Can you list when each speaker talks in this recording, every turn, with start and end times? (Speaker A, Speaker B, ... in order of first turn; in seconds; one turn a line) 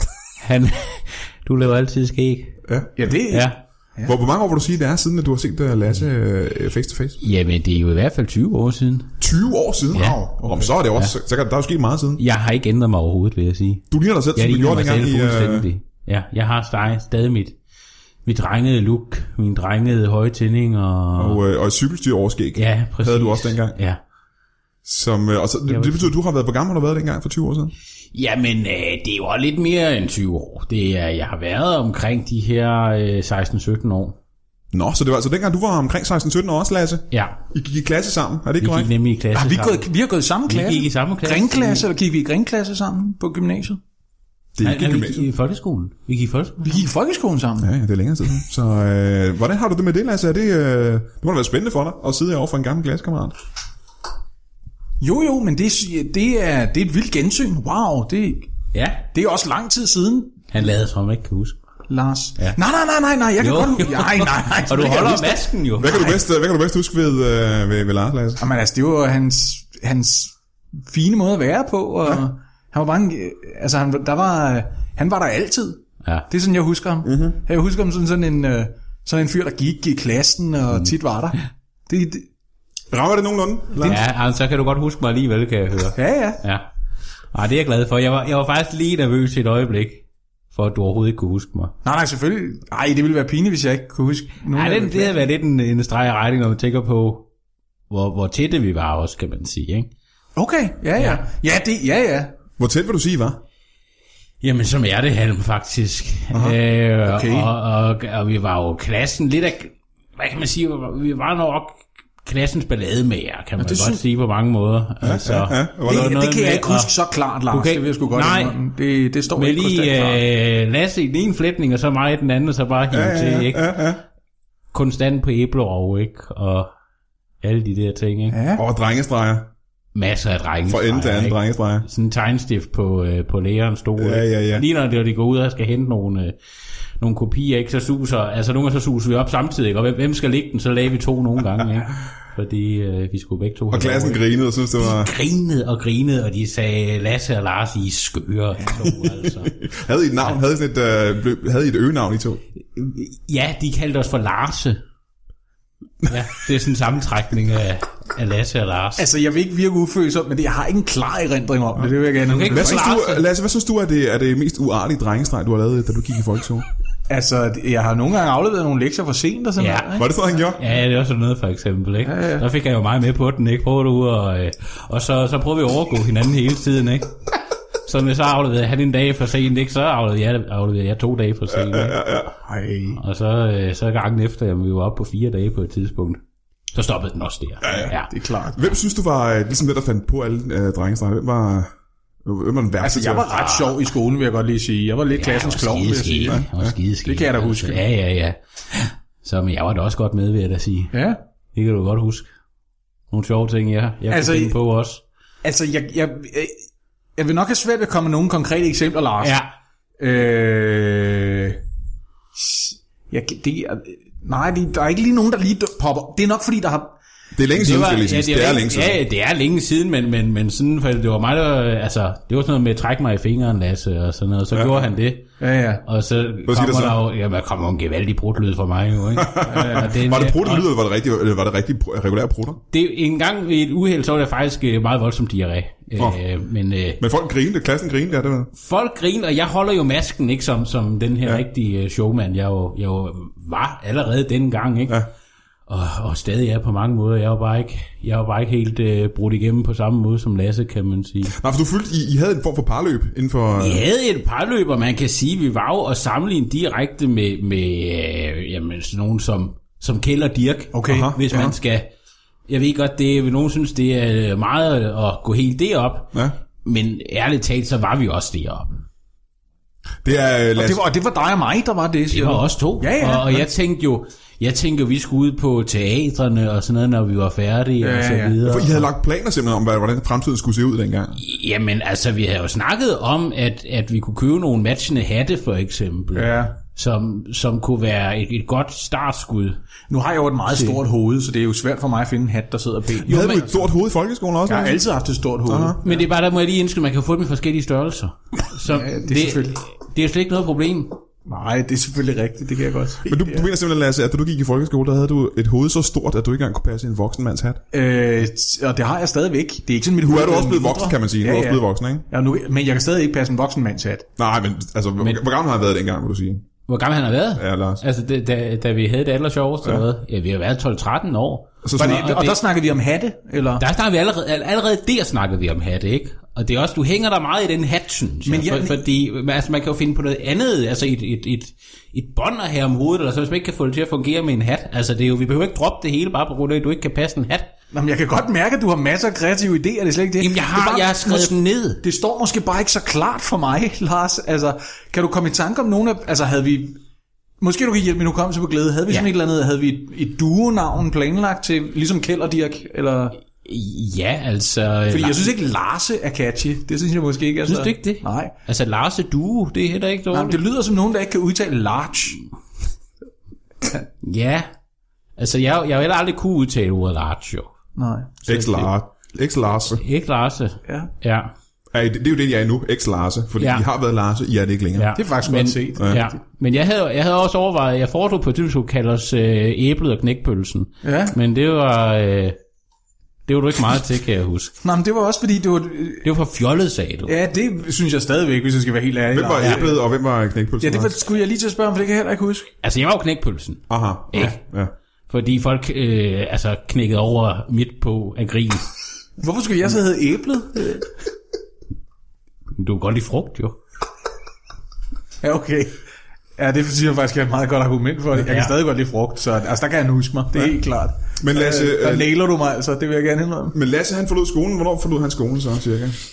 Speaker A: 0.4-2.6
Speaker B: 2.7-2.9
Speaker C: 3.0-4.2
Speaker A: 3.3-3.6
Speaker B: 4.1-7.2
Speaker A: 7.2-9.1
Speaker B: 9.2-12.2
Speaker A: 9.9-10.2
Speaker C: 9.9-10.7
Speaker A: 12.2-17.6
Speaker B: 13.9-15.7
Speaker A: 18.3-21.4
Speaker B: 21.2-23.8
Speaker A: 22.6-24.0
Speaker B: 24.8-27.7
Speaker A: 25.7-26.1
Speaker A: 28.1-34.2
Speaker B: 34.7-38.9
Speaker A: 37.1-37.4
Speaker A: 38.6-39.9
Speaker C: 39.3-43.8
Speaker A: 40.5-41.9
Speaker B: 44.5-45.3
Speaker A: 44.6-46.9
Speaker C: 46.6-47.7
Speaker B: 47.6-53.4
Speaker C: 55.0-58.5
Speaker A: 58.7-59.0
Speaker C: 59.1-60.4
Speaker A: 60.5-61.6
Speaker C: 61.9-65.4
Speaker A: 63.4-66.2
Speaker B: 65.8-68.4
Speaker C: 68.4-70.3
Speaker C: 70.9-82.3
Speaker B: 77.0-77.4
Speaker B: 82.9-84.0
Speaker C: 83.8-84.0
Speaker A: 83.8-86.7
Speaker C: 86.0-86.4
Speaker A: 87.3-91.7
Speaker C: 91.8-95.2
Speaker A: 94.5-97.3
Speaker A: 97.9-99.9
Speaker C: 100.4-102.4
Speaker A: 101.0-101.2
Speaker B: 102.6-103.4
Speaker A: 104.4-116.9
Speaker B: 106.3-106.6
Speaker C: 107.1-107.5
Speaker C: 113.6-114.0
Speaker B: 115.0-116.1
Speaker C: 115.9-120.2
Speaker A: 117.5-118.5
Speaker A: 119.3-123.8
Speaker B: 122.9-124.0
Speaker A: 124.7-126.7
Speaker A: 127.4-128.4
Speaker C: 128.3-128.6
Speaker B: 128.6-129.5
Speaker A: 129.9-136.3
Speaker B: 130.7-131.9
Speaker B: 134.0-134.7
Speaker A: 137.0-144.2
Speaker B: 143.7-145.1
Speaker A: 144.7-149.6
Speaker B: 148.7-152.4
Speaker A: 152.8-154.8
Speaker A: 156.1-159.1
Speaker C: 159.0-162.9
Speaker B: 161.8-166.7
Speaker A: 162.3-163.2
Speaker C: 167.1-170.2
Speaker A: 169.6-170.0
Speaker B: 170.0-170.6
Speaker A: 170.6-177.1
Speaker C: 172.1-172.5
Speaker A: 177.8-182.2
Speaker B: 181.5-182.3
Speaker C: 182.4-183.0
Speaker A: 183.0-186.2
Speaker A: 186.7-188.1
Speaker C: 187.7-188.8
Speaker B: 188.5-191.7
Speaker B: 192.2-193.3
Speaker C: 192.8-196.4
Speaker A: 193.3-193.8
Speaker A: 195.2-200.9
Speaker B: 196.3-196.8
Speaker C: 197.0-197.8
Speaker C: 200.9-201.2
Speaker A: 201.5-202.3
Speaker A: 203.1-205.0
Speaker C: 204.1-204.6
Speaker C: 205.4-206.6
Speaker C: 207.2-209.4
Speaker A: 209.2-209.5
Speaker C: 210.0-211.6
Speaker C: 212.3-216.9
Speaker B: 217.3-219.0
Speaker A: 217.6-225.2
Speaker B: 224.5-224.9
Speaker C: 225.4-225.8
Speaker A: 225.9-230.7
Speaker B: 226.5-227.0
Speaker B: 229.2-232.6
Speaker C: 229.5-229.9
Speaker A: 232.7-237.0
Speaker B: 237.0-238.5
Speaker A: 238.5-245.0
Speaker A: 245.7-251.4
Speaker B: 251.3-253.8
Speaker A: 253.6-261.9
Speaker C: 260.7-261.1
Speaker B: 260.9-261.6
Speaker A: 262.5-266.1
Speaker A: 266.6-268.7
Speaker B: 270.0-270.8
Speaker C: 270.6-273.5
Speaker A: 272.1-278.9
Speaker C: 277.8-278.4
Speaker B: 278.4-281.2
Speaker A: 281.2-289.6
Speaker C: 286.1-286.6
Speaker C: 289.9-293.5
Speaker A: 290.5-290.8
Speaker B: 293.0-294.8
Speaker C: 294.5-296.1
Speaker B: 295.5-295.8
Speaker A: 295.8-301.0
Speaker C: 298.6-299.6
Speaker C: 301.3-303.5
Speaker B: 303.1-307.6
Speaker C: 307.7-314.1
Speaker B: 310.0-312.0
Speaker B: 314.2-316.5
Speaker A: 316.7-322.4
Speaker B: 317.4-317.8
Speaker B: 321.6-322.1
Speaker C: 321.8-323.6
Speaker A: 323.6-337.5
Speaker C: 328.2-328.8
Speaker C: 337.7-346.8
Speaker A: 340.2-341.8
Speaker C: 347.4-353.2
Speaker A: 353.4-355.2
Speaker C: 354.9-358.3
Speaker A: 357.5-360.4
Speaker C: 360.1-362.2
Speaker A: 364.0-364.5
Speaker A: 365.2-367.5
Speaker C: 367.8-368.2
Speaker B: 368.3-369.8
Speaker A: 368.3-368.7
Speaker A: 369.7-371.3
Speaker C: 370.7-370.9
Speaker B: 371.7-374.9
Speaker A: 373.4-373.6
Speaker A: 374.8-382.4
Speaker C: 375.0-376.2
Speaker C: 380.8-381.2
Speaker A: 383.3-384.5
Speaker C: 384.6-386.1
Speaker A: 386.0-387.1
Speaker C: 387.1-389.8
Speaker B: 389.1-391.0
Speaker C: 390.6-392.5
Speaker A: 392.6-394.4
Speaker B: 393.7-394.7
Speaker A: 395.1-398.7
Speaker C: 399.2-400.9
Speaker A: 402.6-403.6
Speaker C: 405.2-405.8
Speaker C: 406.4-413.6
Speaker A: 408.3-408.5
Speaker B: 411.2-412.1
Speaker B: 413.5-416.0